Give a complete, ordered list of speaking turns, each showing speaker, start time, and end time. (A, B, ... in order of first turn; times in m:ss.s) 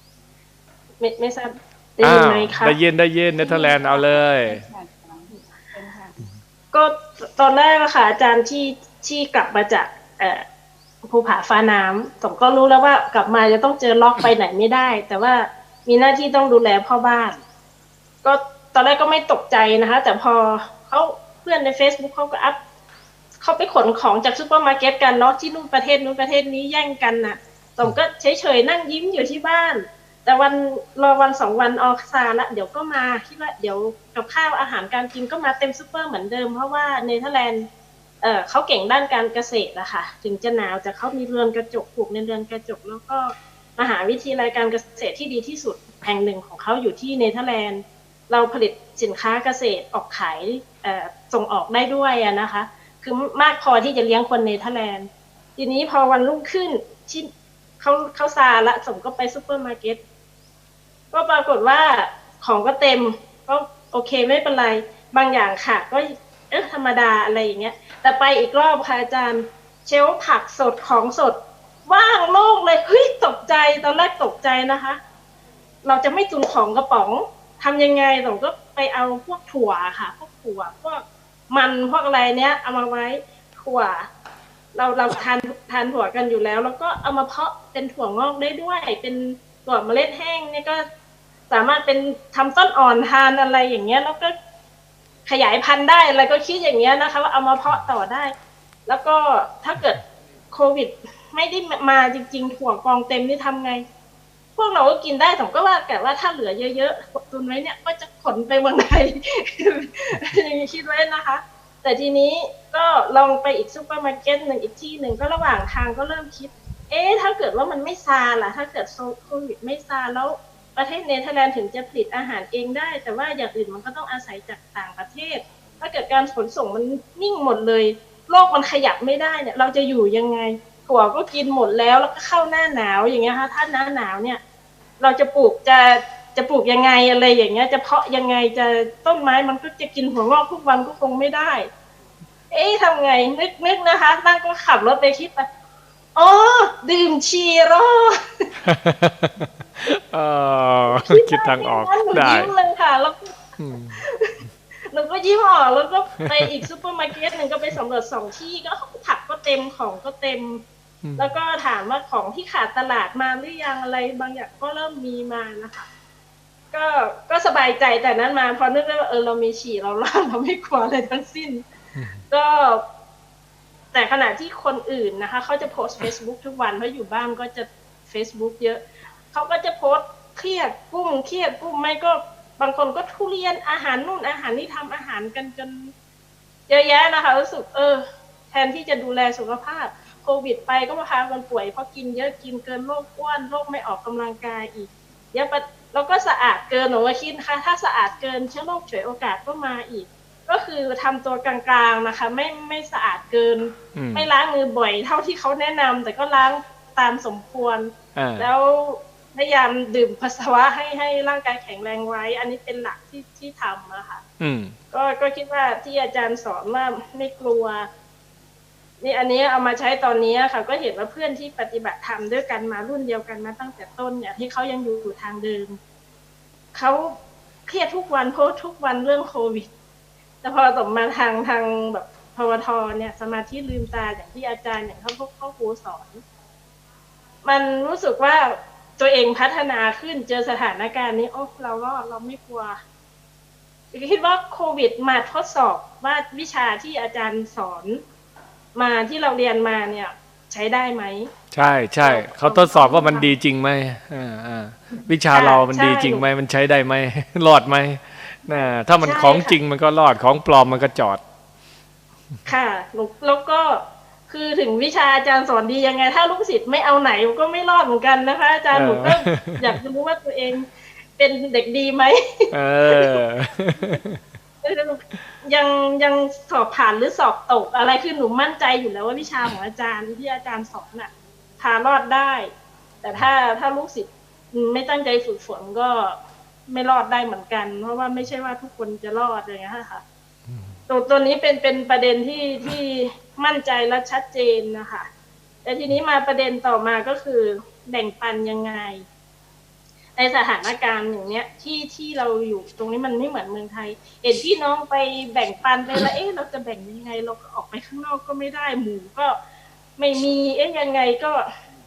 0:01.0-0:02.8 A
0:02.0-0:04.6 B
0:03.4-0:06.2 C
0:06.7-0:10.4 A
0:11.0-0:17.4 A
0:18.2-0:22.6 A
0:23.4-0:37.7 A
0:38.2-0:57.3 A
0:57.8-1:00.0 A
1:01.1-1:15.0 A
1:15.8-1:24.1 A
1:24.7-1:30.8 A
1:31.5-1:34.3 A
1:35.2-1:38.3 A
1:38.9-1:40.0 A
1:40.5-1:43.8 A
1:44.6-2:14.4 A
2:15.0-2:21.7 A
2:22.5-2:25.4 A
2:26.2-2:28.2 A
2:28.7-2:32.5 B
2:30.9-2:33.4 A
2:33.6-2:34.0 B
2:34.0-2:34.3 A
2:34.9-2:40.6 A
2:36.2-2:36.5 B
2:41.0-2:41.4 B
2:41.2-2:45.9 A
2:46.7-2:51.6 A
2:51.9-2:52.2 B
2:52.3-2:52.8 A
2:53.9-3:05.9 A
3:06.7-3:34.2 A
3:23.9-3:24.3 B
3:28.2-3:28.5 B
3:34.4-3:34.7 B
3:34.9-3:37.9 A
3:39.0-3:45.8 A
3:46.7-3:49.7 A
3:50.4-3:56.2 A
3:57.4-4:02.8 A
4:03.9-4:08.0 A
4:08.7-4:11.3 A
4:11.5-4:21.2 B
4:12.0-4:13.3 A
4:15.3-4:16.2 A
4:18.5-4:19.6 A
4:22.4-4:30.7 A
4:28.7-4:29.7 B
4:31.2-4:32.2 A
4:32.5-4:34.2 B
4:32.9-4:33.2 A
4:34.6-4:42.5 A
4:43.0-4:46.2 A
4:46.7-4:50.0 A
4:50.5-4:50.8 B
4:50.9-4:55.1 A
4:55.6-4:59.0 A
5:00.2-5:09.4 A
5:10.0-5:11.4 A